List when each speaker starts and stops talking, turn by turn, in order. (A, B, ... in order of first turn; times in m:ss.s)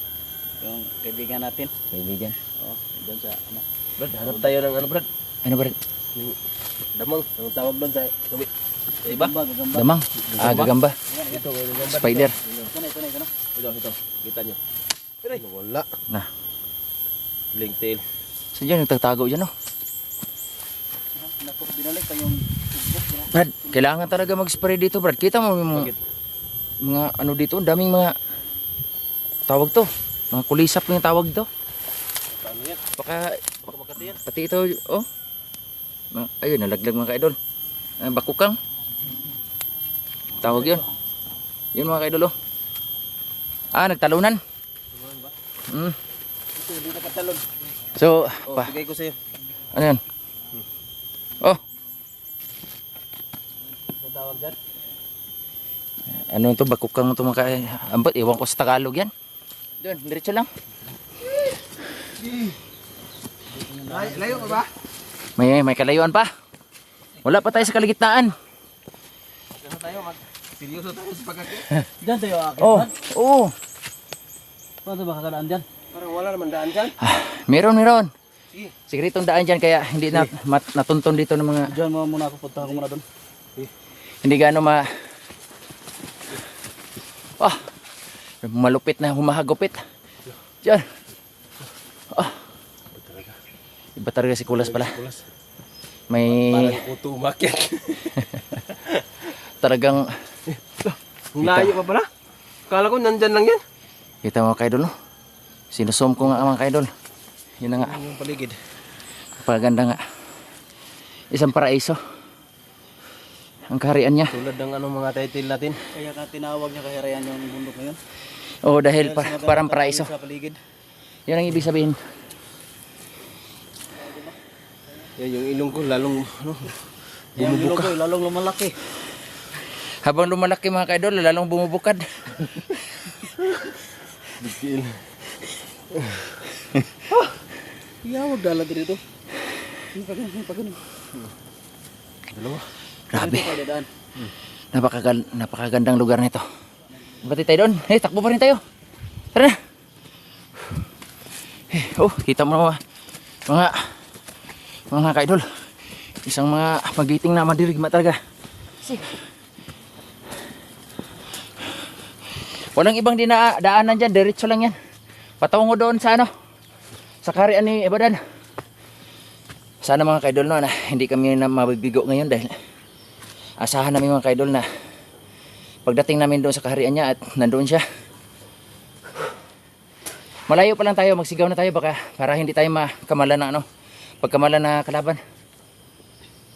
0:00.6-0:01.7 A
0:01.9-0:02.4 B
0:02.6-0:03.6 A
0:04.0-0:05.1 C
0:05.4-0:05.8 B
0:06.9-0:08.5 C
0:09.0-0:09.3 C
0:09.0-0:10.0 A
0:09.7-0:11.0 B
0:10.2-0:10.7 C
0:11.1-0:13.3 A
0:11.3-0:12.7 C
0:12.0-0:12.4 B
0:13.6-0:14.6 C
0:15.3-0:15.9 C
0:17.5-0:18.0 C
0:18.5-0:19.5 B
0:21.2-0:23.8 A
0:23.3-0:25.9 B
0:26.8-0:28.2 B
0:29.5-0:31.5 B
0:32.3-0:32.8 C
0:33.0-0:33.6 B
0:33.6-0:34.2 C
0:34.1-0:35.1 B
0:36.1-0:37.4 B
0:38.0-0:38.6 B
0:40.4-0:40.8 B
0:41.7-0:42.3 B
0:43.7-0:44.4 B
0:44.9-0:45.3 C
0:45.7-0:46.0 B
0:46.6-0:47.4 C
0:47.9-0:48.7 B
0:48.4-0:49.2 C
0:49.7-0:50.0 B
0:54.0-0:54.6 C
0:56.1-0:59.1 B
0:59.8-1:00.5 B
1:02.2-1:02.5 C
1:03.5-1:04.6 A
1:03.9-1:04.7 C
1:05.4-1:06.3 B
1:07.2-1:08.3 B
1:09.6-1:11.7 C
1:12.0-1:12.9 A
1:12.6-1:13.5 B
1:14.8-1:15.6 A
1:15.9-1:17.0 C
1:17.0-1:18.1 B
1:18.9-1:21.7 B
1:21.7-1:23.0 A
1:24.2-1:24.9 B
1:27.4-1:27.7 B
1:28.4-1:29.8 B
1:30.6-1:30.9 B
1:32.1-1:32.4 B
1:32.9-1:33.4 C
1:34.0-1:35.0 B
1:34.6-1:35.3 C
1:36.1-1:36.8 B
1:36.2-1:39.2 C
1:39.6-1:40.2 B
1:40.5-1:42.1 C
1:41.4-1:41.8 B
1:42.7-1:43.6 C
1:44.2-1:44.9 B
1:45.7-1:46.9 B
1:47.6-1:48.0 B
1:47.7-1:48.6 C
1:49.4-1:50.0 B
1:51.3-1:52.0 B
1:53.7-1:54.3 B
1:54.3-1:55.8 C
1:55.9-1:58.0 A
1:58.6-2:00.1 B
1:59.0-2:00.6 A
2:01.3-2:02.0 B
2:04.0-2:04.4 A
2:05.2-2:06.8 C
2:07.4-2:08.0 C
2:07.4-2:08.8 A
2:09.8-2:12.6 B
2:13.4-2:15.2 C
2:15.9-2:16.3 C
2:18.0-2:19.0 A
2:19.9-2:20.8 A
2:22.3-2:22.6 C
2:23.1-2:23.6 B
2:23.1-2:23.9 A
2:24.7-2:26.4 B
2:27.2-2:28.6 B
2:31.7-2:32.8 B
2:33.5-2:33.9 B
2:34.9-2:38.2 B
2:38.8-2:39.1 B
2:42.6-2:44.8 B
2:45.4-2:46.3 B
2:47.2-2:48.2 B
2:49.8-2:52.6 B
2:53.6-2:54.7 B
2:55.8-2:57.8 B
3:00.5-3:03.6 B
3:04.2-3:05.2 B